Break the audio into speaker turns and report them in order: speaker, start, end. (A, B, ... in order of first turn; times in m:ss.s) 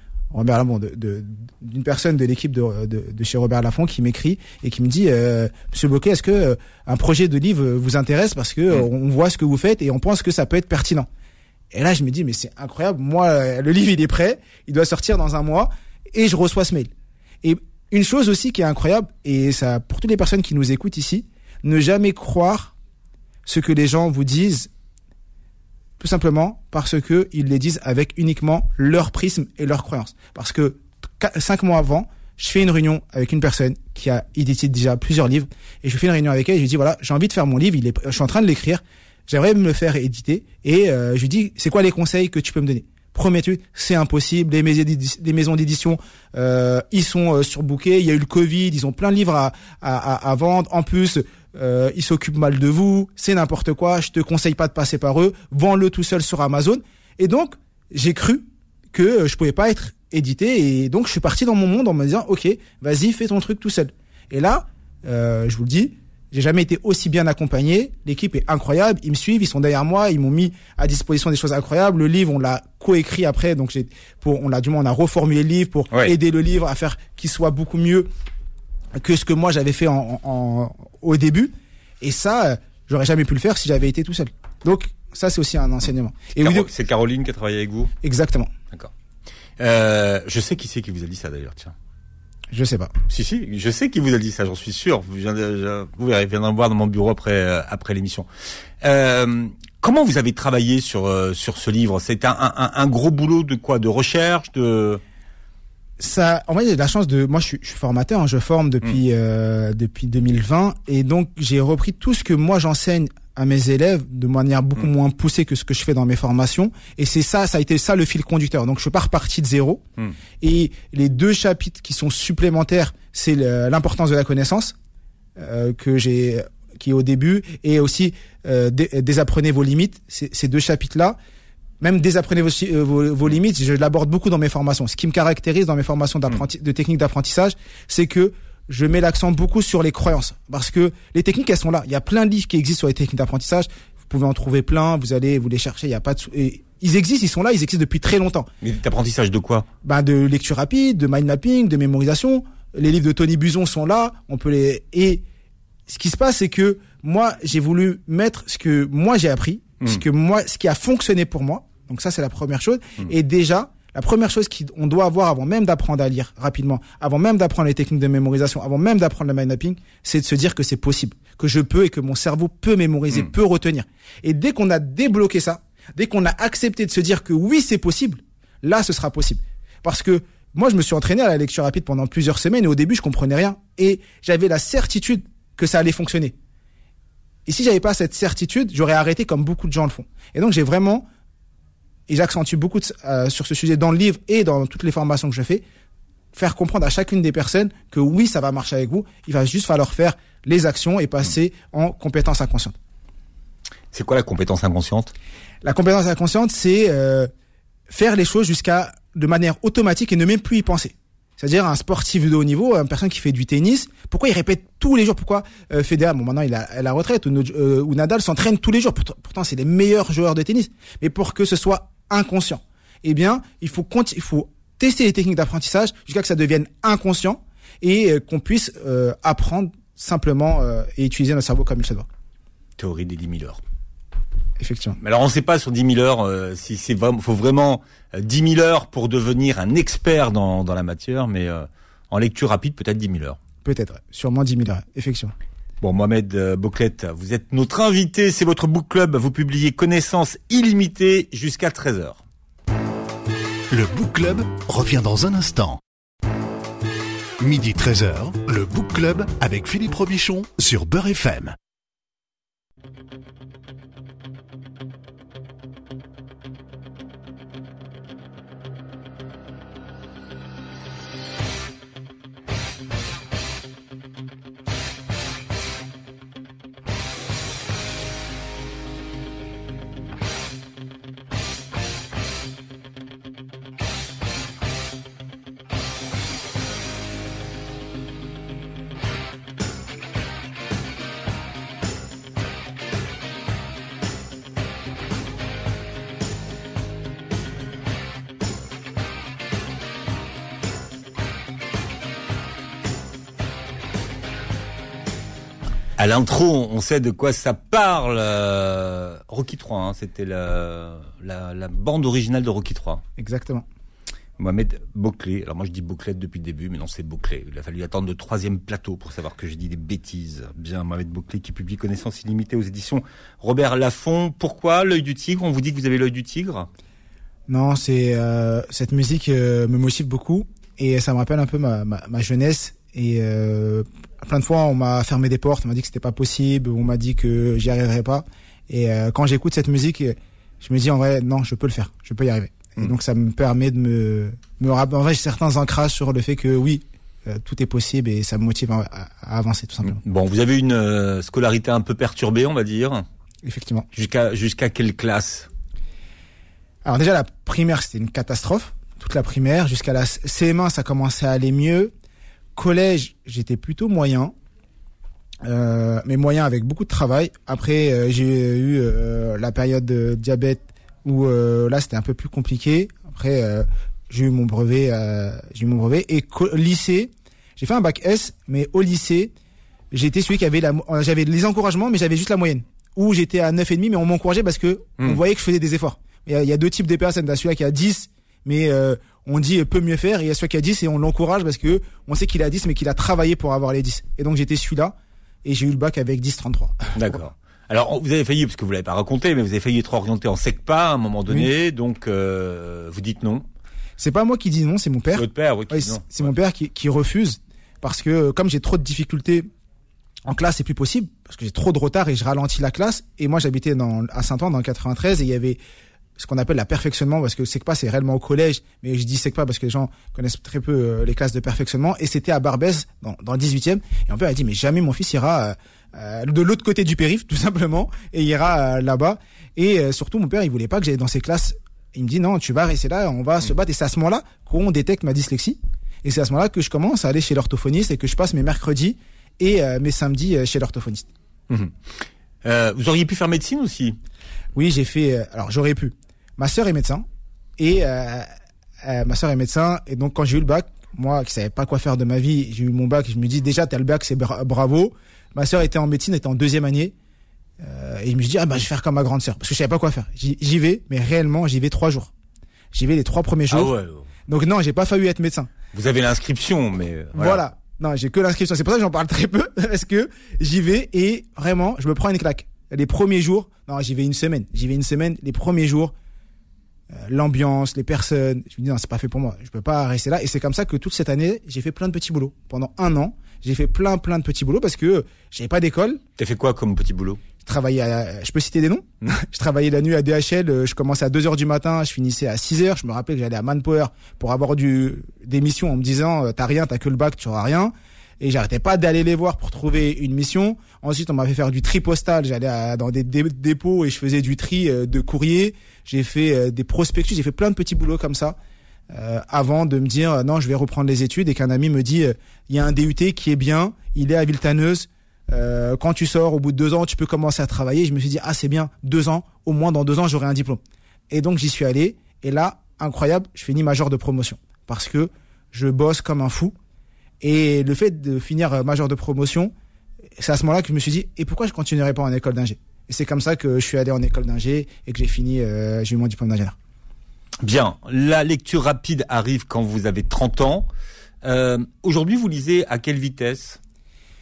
0:00.3-0:11.1 A
0:11.7-0:16.9 A
0:17.4-0:22.7 A
0:23.4-0:24.7 A
0:26.0-1:18.1 A
1:19.0-1:26.7 A
1:26.4-1:27.9 B
1:28.0-1:28.5 A
1:29.6-1:31.7 B
1:32.5-1:32.9 A
1:33.1-1:38.3 B
1:38.8-1:45.0 B
1:46.0-1:59.8 A
2:00.4-2:04.7 A
2:05.4-2:11.2 A
2:11.8-2:28.5 A
2:28.6-2:29.6 B
2:29.8-2:35.2 A
2:35.9-3:06.4 A
3:07.4-3:11.0 A
3:12.1-3:15.6 A
3:16.3-3:22.7 A
3:23.9-3:25.1 B
3:25.6-3:27.3 A
3:27.9-3:52.1 A
3:52.8-3:53.6 B
3:54.6-3:55.0 A
3:55.0-4:03.4 B
4:03.6-4:05.3 A
4:05.8-4:12.2 B
4:13.7-4:15.8 C
4:17.4-4:21.5 C
5:06.0-5:13.0 B
5:13.2-5:13.6 A
5:14.4-5:26.7 B
5:27.5-5:50.0 A
5:49.8-5:53.0 B
5:53.4-5:53.9 A
5:53.9-5:55.5 B
5:56.8-6:01.9 A
6:02.5-6:04.3 A
6:05.4-6:19.3 A
6:19.9-6:36.9 A
6:36.9-6:43.4 B
6:44.0-6:49.4 A
6:45.1-6:46.3 B
6:50.2-6:55.6 A
6:56.2-7:21.1 A
7:21.5-7:24.0 B
7:24.5-7:27.0 A
7:27.6-7:28.3 A
7:28.8-7:36.9 A
7:37.6-7:42.1 A
7:42.7-7:43.7 A
7:43.5-7:44.1 B
7:44.3-7:45.5 A
7:45.7-7:47.4 B
7:47.1-7:55.9 A
7:56.9-8:06.0 A
8:06.2-8:07.2 B
8:07.4-8:28.4 A
8:28.9-8:46.5 A
8:47.2-8:49.5 A
8:50.2-8:56.6 A
8:57.4-9:00.7 B
9:01.2-9:03.6 B